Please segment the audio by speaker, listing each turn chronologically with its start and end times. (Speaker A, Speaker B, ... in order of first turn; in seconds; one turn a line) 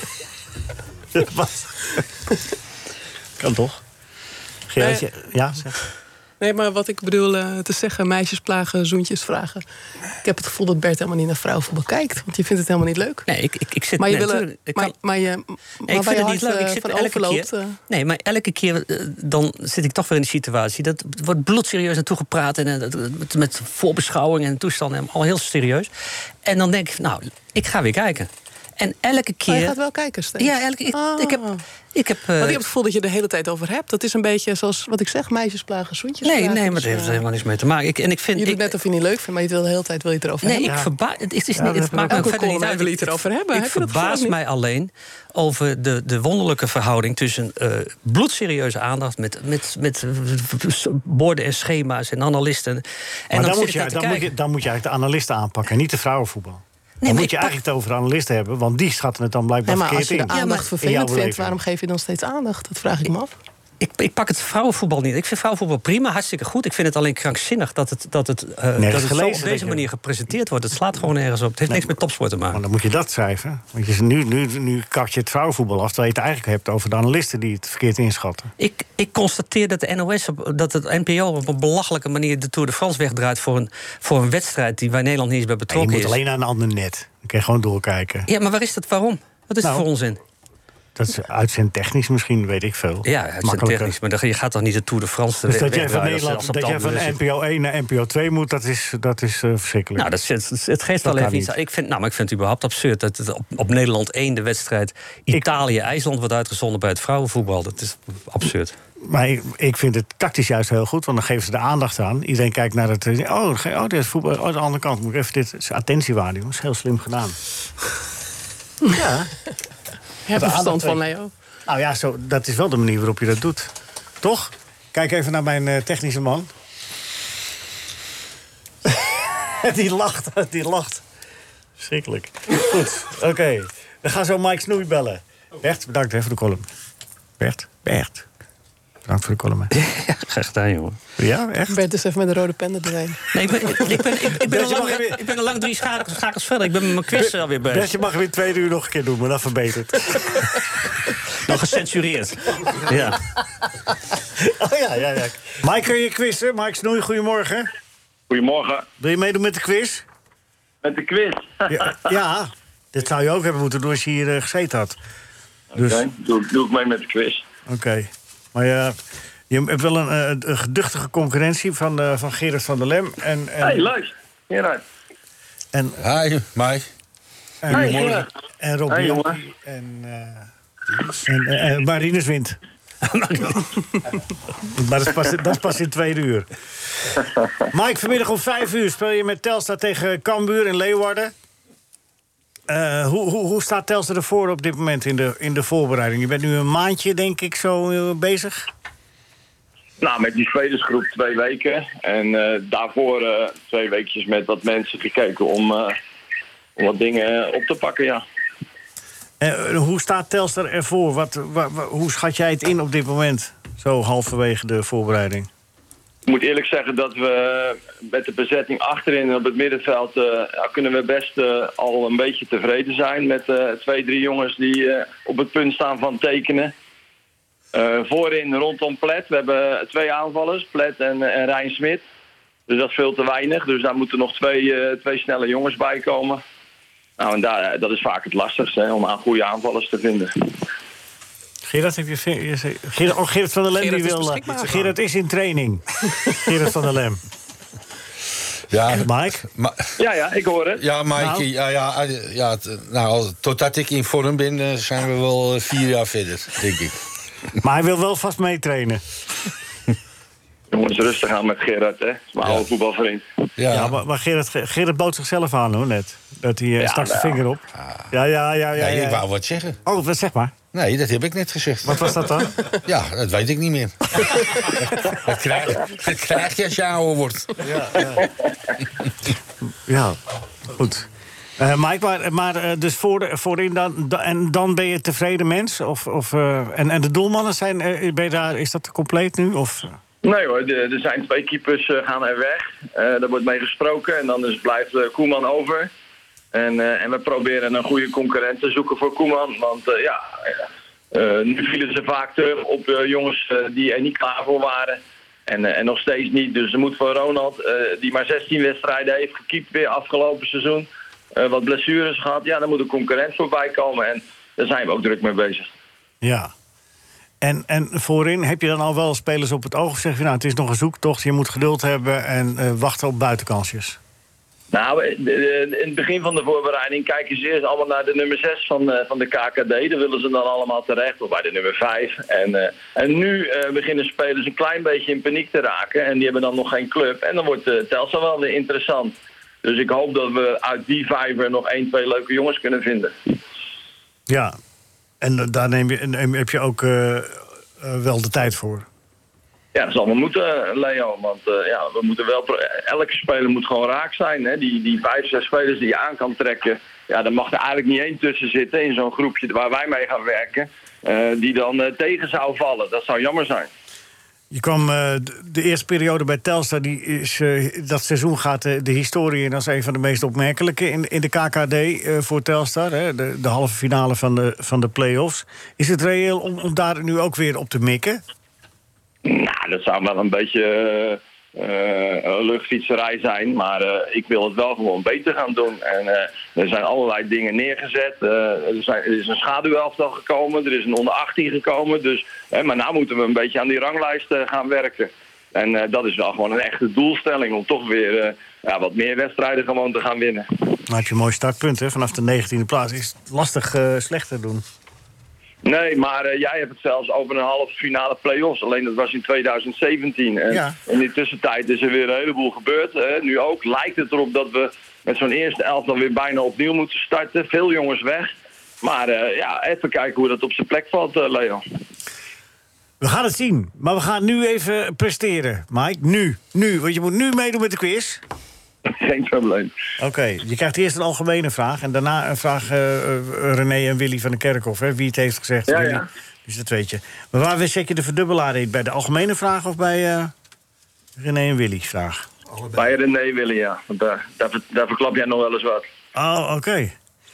Speaker A: 1.1-2.0
Speaker A: 3.4-3.8
Speaker A: 4.7-5.8
Speaker B: 6.4-9.6
Speaker B: 10.2-13.3
Speaker C: 13.3-14.9
Speaker B: 14.0-17.8
Speaker C: 15.9-25.9
Speaker C: 26.4-29.8
Speaker B: 29.5-31.6
Speaker C: 30.4-32.6
Speaker B: 32.4-37.2
Speaker C: 36.2-38.8
Speaker B: 38.4-40.9
Speaker C: 40.4-54.3
Speaker B: 41.5-44.4
Speaker A: 53.3-61.6
Speaker C: 57.0-57.5
Speaker B: 59.6-63.4
Speaker C: 60.3-60.7
Speaker C: 63.8-72.6
Speaker A: 68.8-69.8
Speaker A: 72.5-78.5
Speaker C: 78.6-86.2
Speaker A: 85.7-88.3
Speaker C: 88.3-90.2
Speaker A: 91.0-93.9
Speaker C: 93.0-97.2
Speaker A: 95.5-100.1
Speaker C: 100.0-108.7
Speaker A: 101.0-101.5
Speaker A: 109.0-117.3
Speaker A: 118.8-119.3
Speaker B: 120.3-121.3
Speaker A: 120.3-121.0
Speaker A: 121.7-123.7
Speaker A: 124.2-126.5
Speaker A: 128.8-131.0
Speaker A: 131.8-136.7
Speaker A: 137.4-138.2
Speaker A: 139.1-139.7
Speaker C: 139.7-141.0
Speaker A: 141.2-141.8
Speaker B: 141.7-143.2
Speaker C: 143.3-148.0
Speaker A: 144.4-145.2
Speaker A: 147.7-150.4
Speaker C: 151.4-153.2
Speaker A: 154.4-157.7
Speaker D: 158.3-158.9
Speaker A: 159.0-160.0
Speaker D: 160.8-161.9
Speaker A: 161.7-164.9
Speaker A: 165.7-166.1
Speaker D: 165.8-167.4
Speaker A: 167.7-168.9
Speaker A: 169.5-173.9
Speaker D: 173.6-174.8
Speaker A: 175.7-176.0
Speaker E: 176.0-176.9
Speaker A: 177.6-180.5
Speaker E: 177.7-178.2
Speaker D: 177.7-178.2
Speaker D: 178.9-179.4
Speaker A: 181.2-182.6
Speaker C: 183.0-183.6
Speaker A: 184.7-186.5
Speaker A: 187.7-191.3
Speaker A: 192.7-198.6
Speaker D: 200.0-205.9
Speaker D: 206.8-208.2
Speaker A: 209.4-215.5
Speaker D: 216.2-226.7
Speaker D: 227.7-232.0
Speaker D: 232.7-236.4
Speaker D: 237.2-240.3
Speaker A: 241.7-247.2
Speaker B: 243.8-244.9
Speaker E: 248.7-249.9
Speaker A: 249.0-249.4
Speaker D: 250.0-250.8
Speaker E: 250.8-256.9
Speaker A: 251.2-251.4
Speaker A: 257.6-259.0
Speaker D: 260.7-263.2
Speaker E: 263.6-263.9
Speaker A: 263.7-269.2
Speaker D: 266.8-267.4
Speaker E: 268.8-269.8
Speaker A: 269.8-270.5
Speaker E: 270.7-277.6
Speaker A: 271.8-272.8
Speaker A: 277.6-278.3
Speaker A: 279.9-280.2
Speaker A: 280.7-281.1
Speaker A: 281.6-290.0
Speaker D: 290.2-295.9
Speaker D: 296.5-300.6
Speaker D: 301.1-315.7
Speaker A: 316.2-316.5
Speaker A: 317.4-324.0
Speaker D: 324.7-343.3
Speaker A: 344.3-344.6
Speaker A: 345.2-348.9
Speaker D: 349.7-363.7
Speaker A: 364.5-378.2
Speaker D: 379.2-400.5
Speaker A: 400.9-404.6
Speaker D: 405.6-421.6
Speaker A: 410.5-410.8
Speaker A: 423.0-428.2
Speaker D: 428.9-429.7
Speaker A: 430.0-440.3
Speaker D: 435.7-436.1
Speaker A: 441.2-442.2
Speaker D: 442.7-445.9
Speaker A: 446.1-446.9